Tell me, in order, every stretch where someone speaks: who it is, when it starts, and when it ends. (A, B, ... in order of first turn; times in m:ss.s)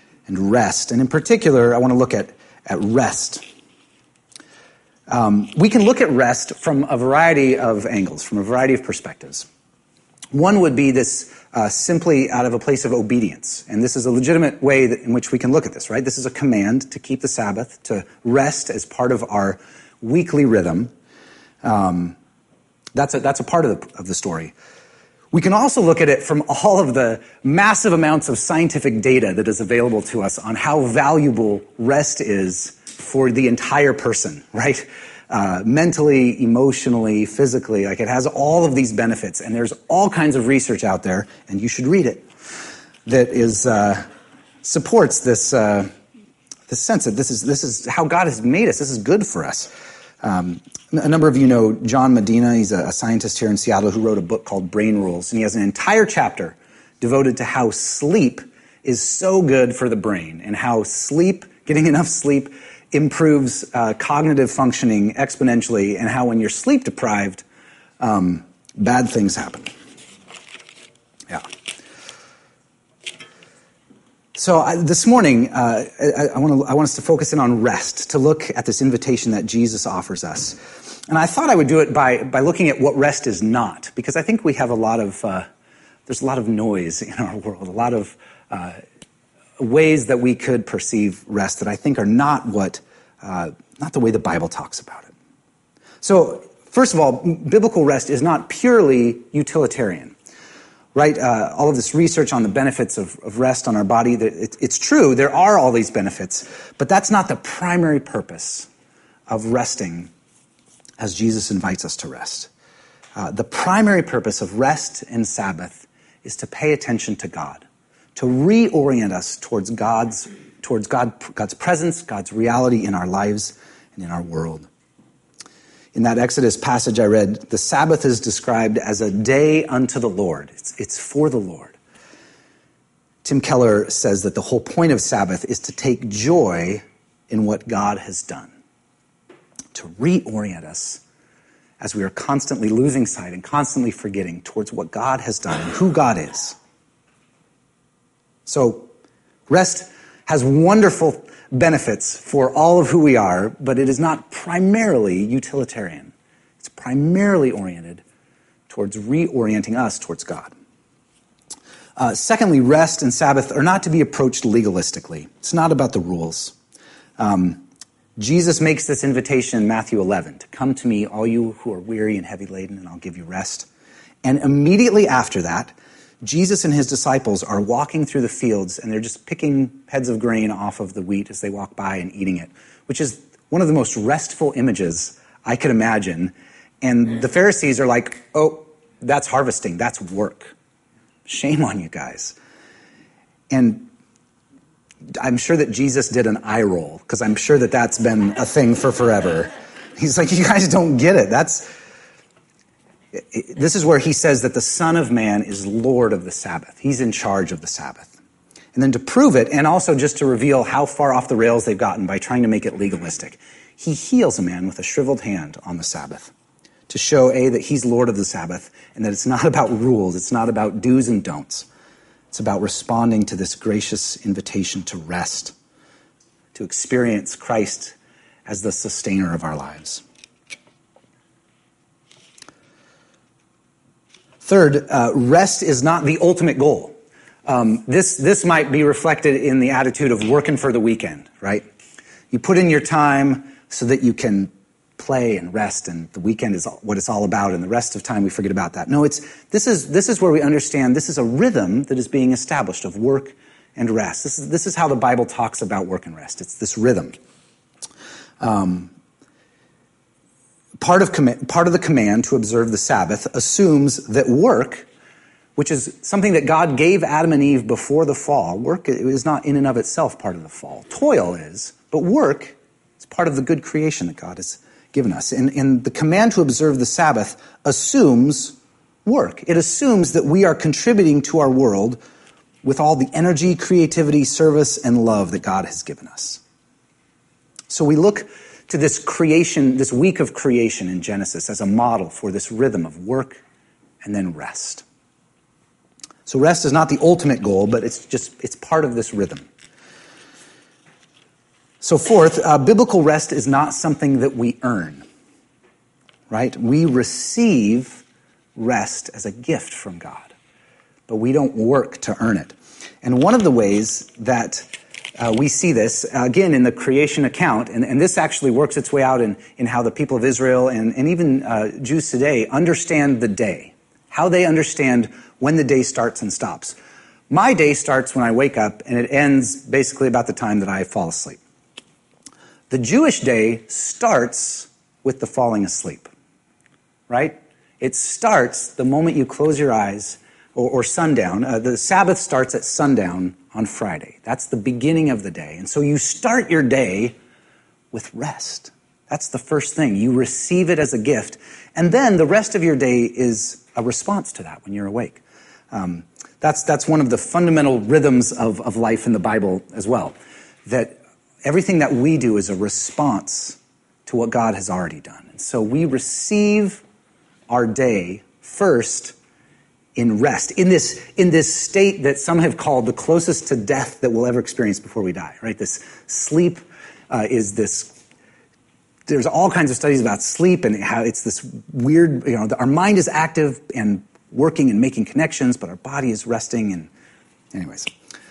0:00.3-0:03.4 A
0:05.1-0:09.5 A
0:10.3-0:20.9 A
0:21.6-0:22.2 A
0:22.9-0:24.5 A
0:25.3-0:42.3 A
0:43.0-0:44.0 A
0:44.6-0:45.9 A
0:46.7-0:49.7 A
0:50.2-1:07.4 A
1:08.0-1:09.7 A
1:14.3-1:25.5 A
1:26.1-1:28.8 A
1:29.6-1:35.1 A
1:36.0-1:40.1 A
1:40.9-1:48.7 A
1:49.3-1:50.1 A
1:51.0-1:52.5 A
1:53.2-1:57.6 A
1:58.2-2:04.7 A
2:05.9-2:11.8 A
2:13.2-2:18.5 A
2:19.7-2:21.0 A
2:21.8-2:26.6 A
2:28.4-2:28.9 A
2:29.5-2:38.0 A
2:38.7-2:40.5 A
2:42.0-2:46.5 A
2:47.2-2:47.6 A
2:48.2-2:53.7 A
2:54.2-3:10.5 A
3:11.2-3:12.4 A
3:13.5-3:13.9 A
3:15.2-3:21.7 A
3:23.1-3:28.1 A
3:28.7-3:36.3 A
3:36.9-3:41.7 A
3:42.3-3:45.5 A
3:46.5-3:47.9 A
3:48.4-3:50.0 A
3:54.4-3:56.9 A
3:57.4-4:01.7 A
4:02.3-4:17.1 A
4:18.4-4:18.9 A
4:20.8-4:24.9 A
4:25.6-4:42.0 A
4:42.6-4:46.4 A
4:47.7-4:53.4 A
4:54.0-4:54.8 A
4:56.2-4:59.5 A
5:01.8-5:05.0 A
5:06.3-5:08.0 A
5:08.6-5:10.3 A
5:11.1-5:26.8 A
5:27.3-5:31.4 A
5:32.7-5:36.1 A
5:37.1-5:47.2 A
5:47.9-6:00.1 A
6:00.6-6:06.8 A
6:07.5-6:09.1 A
6:09.9-6:17.9 A
6:19.1-6:26.9 A
6:27.5-6:27.9 A